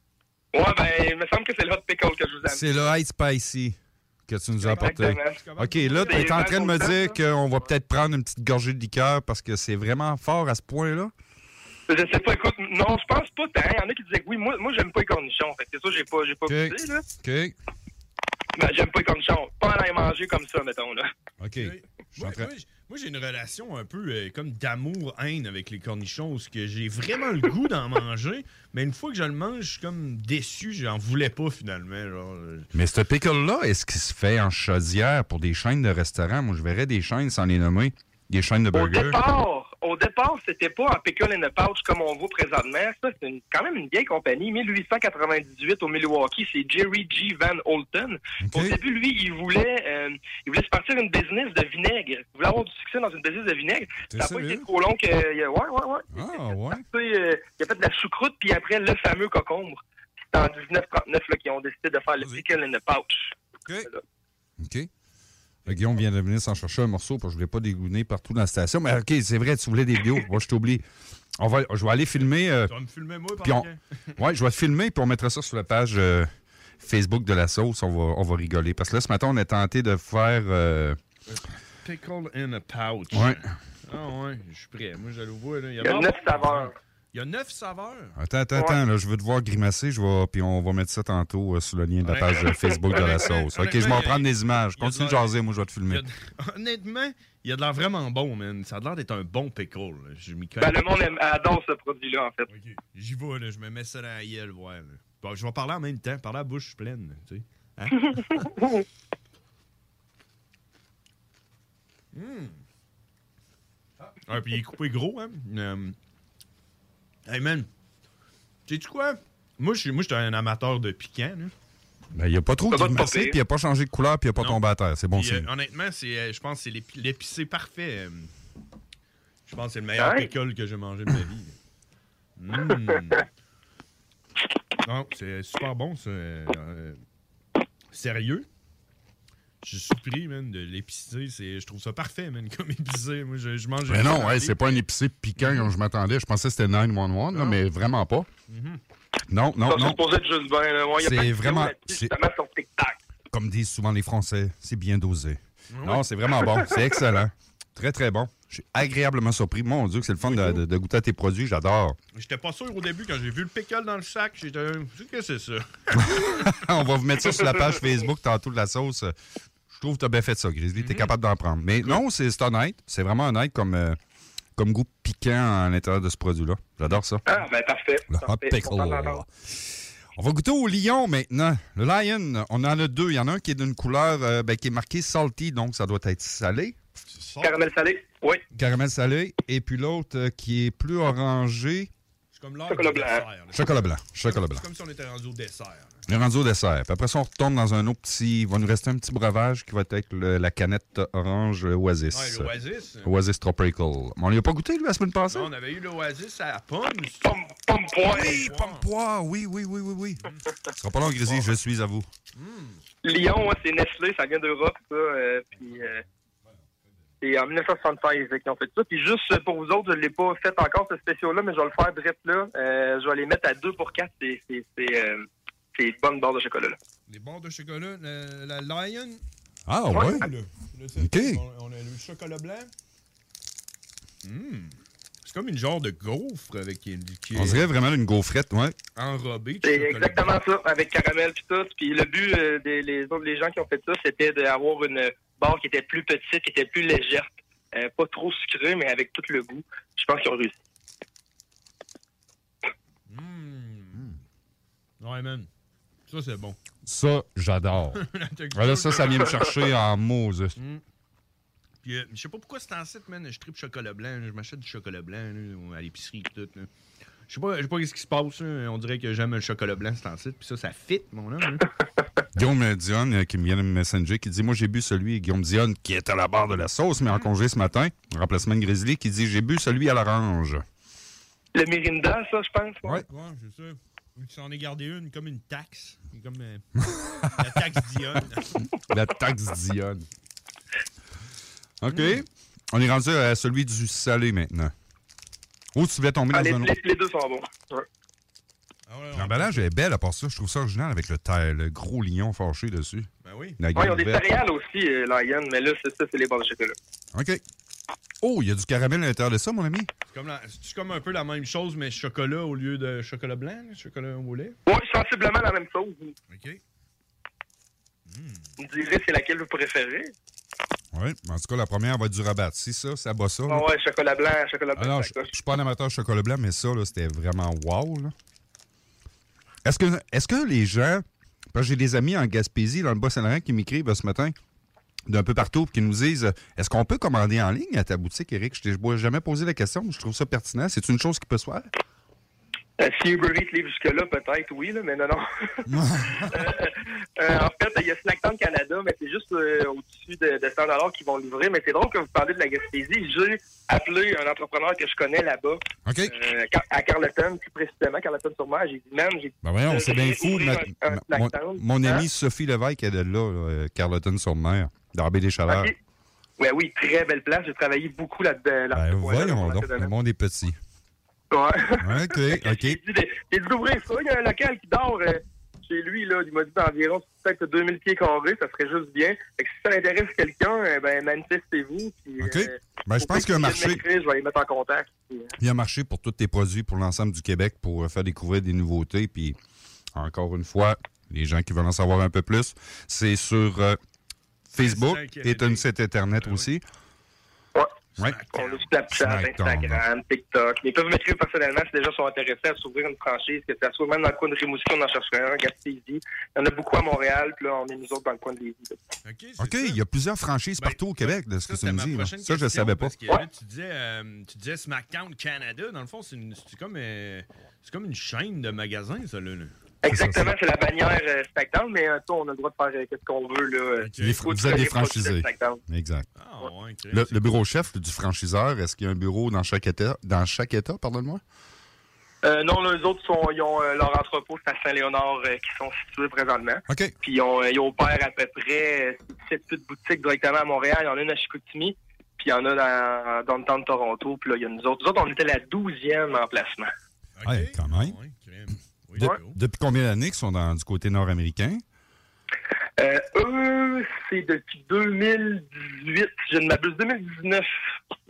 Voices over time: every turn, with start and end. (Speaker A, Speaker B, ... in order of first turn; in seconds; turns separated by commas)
Speaker A: 0.5-2.9, Speaker B: 2.5-11.1, Speaker A: 4.6-5.4, Speaker C: 4.7-6.6, Speaker A: 6.0-7.2, Speaker A: 11.9-17.0, Speaker B: 16.5-17.5, Speaker A: 18.6-21.1, Speaker B: 21.4-22.5, Speaker C: 21.6-32.7, Speaker B: 32.7-39.2, Speaker A: 38.7-59.8, Speaker B: 48.4-48.8, Speaker B: 54.1-54.7, Speaker B: 56.1-56.8, Speaker A: 60.3-64.0, Speaker B: 64.6-64.9, Speaker B: 65.7-70.8, Speaker B: 71.4-72.7, Speaker C: 72.6-74.2, Speaker B: 73.4-76.3, Speaker B: 76.8-81.0, Speaker C: 81.3-88.2, Speaker B: 83.1-83.5, Speaker A: 85.8-86.7, Speaker B: 88.2-96.0, Speaker C: 92.0-95.3, Speaker C: 95.9-100.8, Speaker A: 100.6-102.5, Speaker C: 102.5-108.5, Speaker C: 112.1-112.6, Speaker C: 114.3-116.0, Speaker C: 117.3-117.7, Speaker C: 118.7-121.5, Speaker B: 122.1-125.5, Speaker A: 122.7-123.4, Speaker C: 125.1-128.3, Speaker C: 129.4-131.5, Speaker A: 130.0-130.3, Speaker C: 132.4-133.2, Speaker C: 134.8-137.0, Speaker C: 137.9-138.5, Speaker C: 139.6-144.8, Speaker B: 143.9-148.3, Speaker C: 145.4-145.7, Speaker C: 147.3-147.6, Speaker C: 148.5-148.8, Speaker B: 149.3-150.0, Speaker A: 149.6-153.0, Speaker B: 151.0-152.1, Speaker B: 153.3-162.0, Speaker C: 155.7-156.0, Speaker C: 160.2-160.6, Speaker C: 162.1-166.6, Speaker B: 165.9-169.1, Speaker B: 169.7-174.0, Speaker C: 170.8-171.1, Speaker B: 174.6-177.2, Speaker A: 177.2-179.2, Speaker B: 178.1-186.8, Speaker C: 187.1-187.6, Speaker A: 187.4-188.4, Speaker B: 188.6-191.9, Speaker C: 192.3-196.0, Speaker A: 192.7-193.2, Speaker B: 193.5-194.6, Speaker B: 196.1-202.5, Speaker C: 202.1-203.1, Speaker B: 203.0-205.5, Speaker C: 205.3-207.3, Speaker A: 207.2-208.4, Speaker B: 208.1-212.1, Speaker C: 208.2-208.8, Speaker C: 212.3-212.8, Speaker A: 213.0-216.0, Speaker A: 217.2-226.8, Speaker C: 227.1-229.2, Speaker B: 229.7-230.3, Speaker C: 229.9-232.7, Speaker A: 229.9-230.2, Speaker B: 231.0-231.4, Speaker C: 234.2-237.7, Speaker B: 237.3-238.8, Speaker C: 238.9-240.4, Speaker A: 239.6-250.6, Speaker C: 253.1-254.1, Speaker C: 255.0-255.5, Speaker C: 256.1-256.6, Speaker B: 256.8-260.5, Speaker C: 257.9-259.6, Speaker C: 260.6-260.8, Speaker C: 261.8-266.7, Speaker C: 267.3-271.7, Speaker B: 272.3-280.6, Speaker A: 281.5-283.0, Speaker C: 283.1-288.7, Speaker B: 286.8-287.6, Speaker B: 288.9-290.1, Speaker B: 291.8-294.7, Speaker C: 291.9-292.2, Speaker B: 295.7-296.7, Speaker A: 296.3-297.9, Speaker C: 298.9-299.6, Speaker B: 299.1-304.2, Speaker C: 303.2-303.6, Speaker A: 303.7-306.8, Speaker B: 307.1-307.4, Speaker B: 308.2-309.9, Speaker C: 310.1-314.6, Speaker A: 314.6-316.1, Speaker C: 316.3-316.6, Speaker C: 318.1-318.5, Speaker A: 318.6-320.1, Speaker B: 320.9-323.7, Speaker A: 323.5-325.3, Speaker B: 324.8-328.1, Speaker B: 329.6-334.4, Speaker B: 335.1-341.7, Speaker A: 342.8-345.7, Speaker B: 345.7-346.5, Speaker A: 346.2-362.1, Speaker B: 355.9-356.1, Speaker B: 359.4-365.7, Speaker A: 365.5-365.7, Speaker A: 366.4-369.9, Speaker B: 368.7-370.6, Speaker A: 371.3-385.3, Speaker B: 371.8-372.8, Speaker B: 382.2-383.8, Speaker B: 385.4-389.4, Speaker B: 389.9-393.8, Speaker B: 394.5-396.6, Speaker C: 394.6-395.6, Speaker C: 396.2-396.5, Speaker C: 397.9-398.7, Speaker A: 398.3-408.8, Speaker B: 398.9-399.8, Speaker C: 409.0-409.8, Speaker B: 409.4-412.9, Speaker C: 410.6-419.5, Speaker A: 419.8-425.6, Speaker B: 419.9-420.3, Speaker C: 423.8-424.2, Speaker B: 424.0-426.1, Speaker C: 426.1-427.4, Speaker B: 426.9-431.2, Speaker A: 432.2-446.7, Speaker B: 436.7-436.9, Speaker C: 447.1-449.4, Speaker B: 447.2-447.9, Speaker B: 449.0-451.6, Speaker A: 452.8-457.5